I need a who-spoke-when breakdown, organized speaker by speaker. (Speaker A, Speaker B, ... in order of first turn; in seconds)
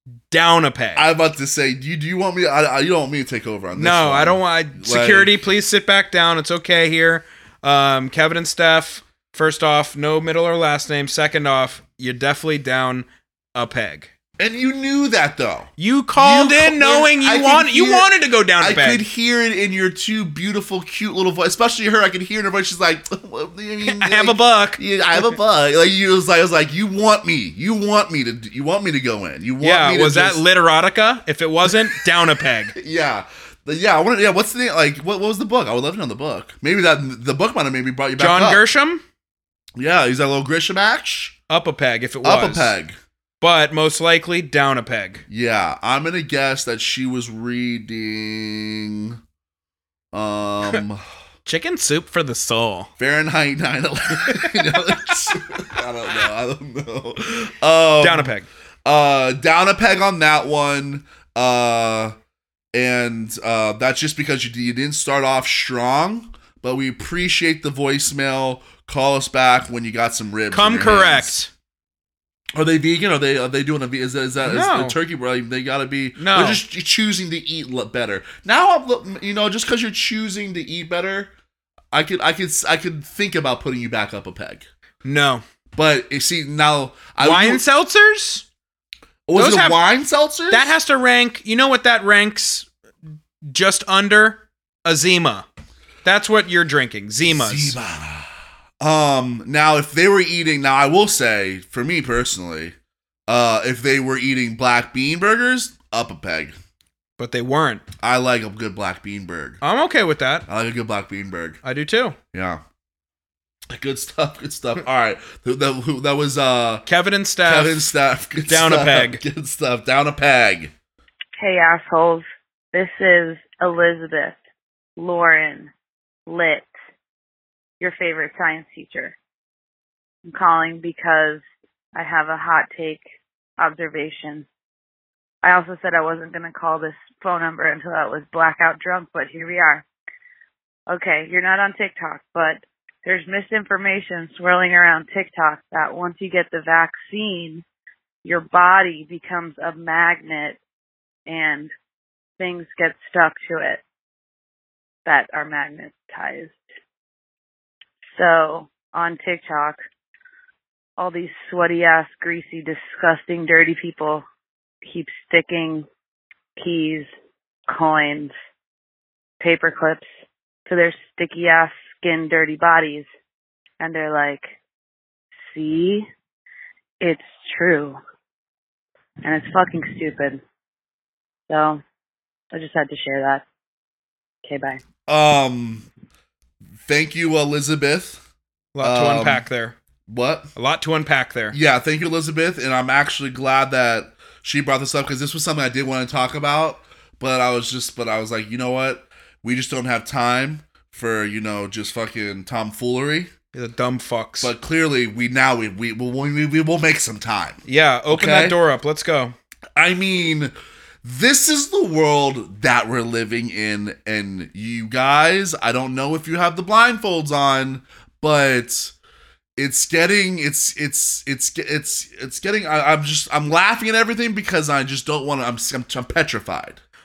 Speaker A: 0.3-1.1, 3.7-14.1, 15.8-19.0, 23.8-25.4, 29.6-32.8, 38.2-39.0, 41.5-42.7, 43.4-45.2, 51.5-52.9, 54.2-55.2, 58.0-58.5, 70.5-71.5, 74.4-75.0, 76.2-76.6, 85.0-85.4, 87.2-88.5, 89.3-89.8, 90.5-92.7, 93.4-95.5, 96.0-97.8, 107.2-107.8, 109.6-110.5, 111.6-112.2, 116.8-117.9, 118.5-119.2, 188.7-189.8, 190.5-191.6, 203.5-204.5, 207.7-209.3
Speaker B: 0.9-5.3, 14.4-30.4, 31.7-32.0, 32.7-38.6, 39.8-41.4, 42.2-43.0, 45.3-49.2, 50.1-51.0, 53.0-58.3, 58.8-62.1, 62.7-71.3, 72.5-81.3, 81.9-84.7, 85.7-87.6, 89.3-90.7, 97.2-102.7, 103.3-106.5, 108.0-109.6, 110.5-111.6, 112.3-112.6, 113.7-116.8, 117.4-120.7, 185.1-185.8, 186.8-188.2, 188.8-189.4, 190.1-190.5, 191.5-203.3, 204.4-208.6, 209.8-218.9, 219.6-226.8
Speaker C: 121.4-124.4, 125.0-125.7, 126.2-126.7, 127.8-129.2, 130.3-131.4, 131.9-133.0, 133.6-134.5, 135.4-139.8, 140.9-147.6, 148.2-150.6, 151.3-151.7, 152.4-153.8, 155.0-156.6, 158.1-159.8, 161.0-164.2, 164.8-165.9, 166.6-167.1, 167.7-168.3, 169.4-170.1, 170.7-173.1, 173.8-174.6, 175.4-176.1, 177.0-178.0, 179.2-180.4, 181.5-181.8, 182.5-183.4, 184.4-184.8